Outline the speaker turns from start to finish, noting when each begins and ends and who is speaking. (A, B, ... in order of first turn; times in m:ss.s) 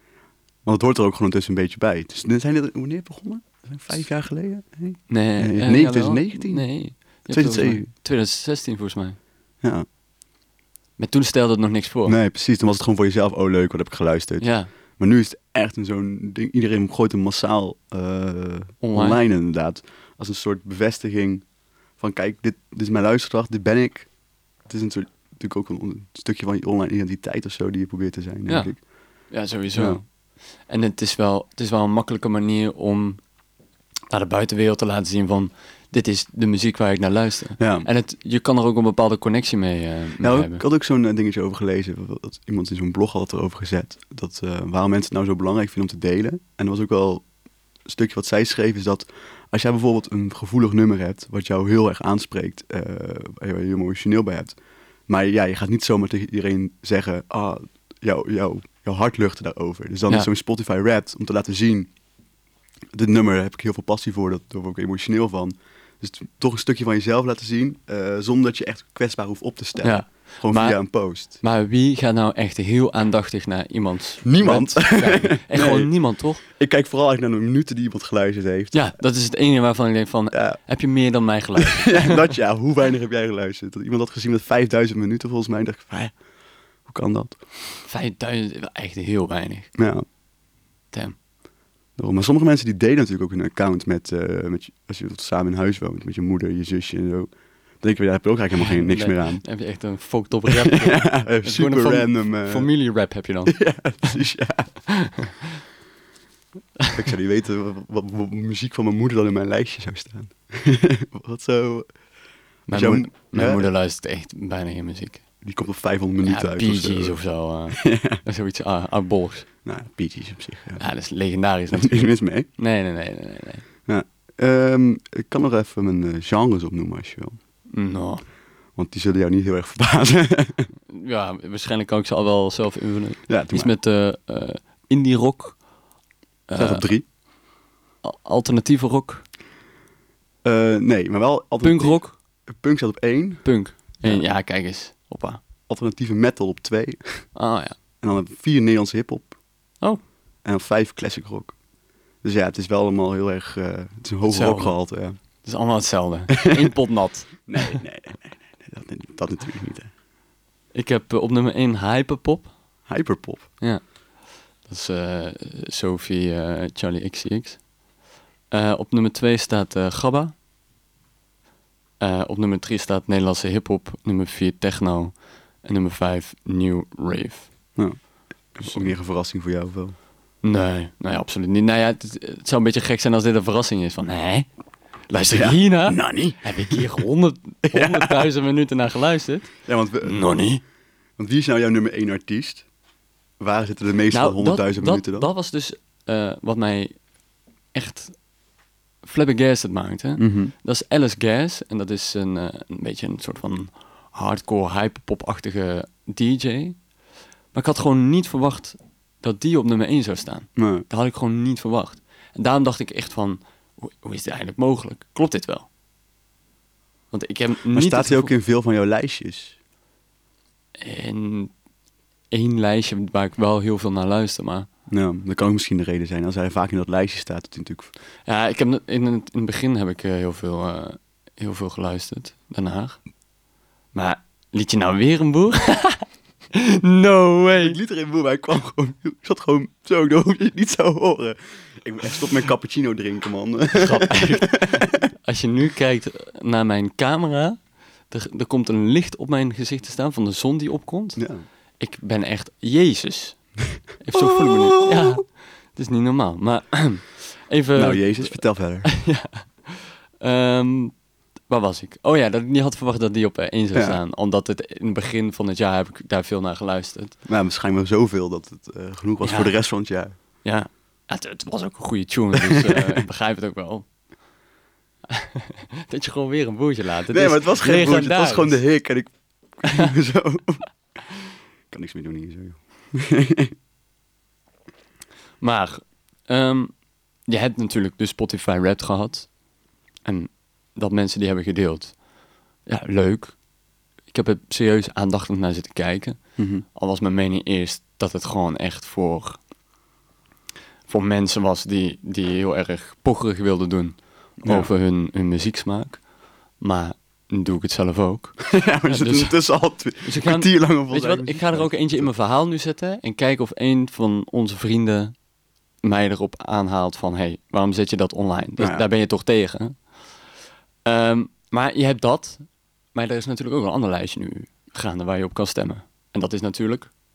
0:00.6-0:07.9 A
0:05.1-0:09.2 B
0:11.0-0:12.2 B
0:12.0-0:21.4 A
0:14.4-0:14.7 B
0:18.8-0:19.2 B
0:22.0-0:24.1 A
0:24.7-0:28.8 A
0:29.3-0:30.0 B
0:29.7-0:30.0 A
0:30.7-0:33.2 B
0:34.1-0:40.6 B
0:37.6-0:37.9 A
0:40.2-0:47.2 A
0:47.8-0:54.6 A
0:55.1-1:01.9 A
1:02.9-1:11.4 A
1:09.8-1:16.4 B
1:14.2-1:18.8 A
1:18.7-1:22.3 B
1:20.3-1:20.6 A
1:21.6-1:26.1 A
1:26.8-1:27.4 A
1:27.8-1:29.7 B
1:29.7-1:30.0 A
1:30.9-1:31.2 B
1:32.0-1:39.4 A
1:38.6-1:44.2 B
1:40.5-1:42.7 A
1:43.5-1:44.8 A
1:44.9-1:45.3 B
1:46.9-1:51.9 A
1:52.7-1:55.2 B
1:52.7-1:53.7 A
1:55.4-1:58.2 A
1:56.2-1:59.5 B
1:59.6-2:00.8 A
2:00.8-2:03.6 B
2:01.7-2:02.5 A
2:03.9-2:07.4 A
2:07.7-2:08.2 B
2:08.8-2:10.7 A
2:10.9-2:15.6 B
2:13.3-2:13.7 A
2:16.5-2:16.9 B
2:16.6-2:17.0 A
2:18.0-2:19.2 B
2:20.4-2:24.2 A
2:21.6-2:22.2 B
2:23.4-2:25.4 B
2:25.7-2:27.3 A
2:27.3-2:27.8 B
2:28.0-2:29.4 A
2:30.4-2:31.5 A
2:32.2-2:35.2 A
2:34.3-2:34.8 B
2:35.3-2:37.8 B
2:37.5-2:39.9 A
2:40.7-2:42.5 B
2:42.9-2:43.5 A
2:43.6-2:44.0 B
2:44.6-2:47.7 B
2:48.5-2:50.3 B
2:52.0-2:57.5 B
2:58.5-2:59.9 A
2:58.6-2:58.9 B
3:00.4-3:04.5 B
3:05.1-3:10.6 B
3:05.3-3:06.8 A
3:07.7-3:08.3 A
3:09.6-3:10.4 A
3:11.2-3:12.6 A
3:13.4-3:15.3 A
3:14.1-3:17.0 B
3:17.7-3:18.2 B
3:19.0-3:26.8 B
3:20.2-3:20.5 A
3:27.5-3:35.7 B
3:30.6-3:30.8 A
3:37.1-3:38.3 B
3:37.7-3:39.6 A
3:40.8-3:41.5 B
3:42.3-3:44.7 B
3:44.9-3:47.9 A
3:48.2-3:53.0 B
3:53.9-3:57.8 B
3:57.6-4:05.1 A
4:03.7-4:07.6 B
4:08.1-4:11.2 B
4:11.2-4:11.4 A
4:11.8-4:20.9 B
4:14.1-4:15.2 A
4:17.8-4:18.9 A
4:21.5-4:27.2 B
4:23.7-4:24.0 A
4:27.2-4:30.1 A
4:29.2-4:29.5 B
4:30.4-4:33.9 B
4:32.4-4:32.8 A
4:35.1-4:38.6 B
4:37.1-4:40.6 A
4:41.7-4:43.5 A
4:45.4-4:46.7 B
4:47.2-4:49.3 B
4:50.0-4:52.0 B
4:52.6-4:53.4 B
4:54.1-4:59.4 B
4:56.4-4:56.6 A
5:00.9-5:06.0 B
5:04.4-5:04.7 A
5:06.6-5:09.4 B
5:08.4-5:12.1 A
5:10.0-5:15.1 B
5:15.8-5:20.0 B
5:18.6-5:18.8 A
5:20.8-5:26.9 B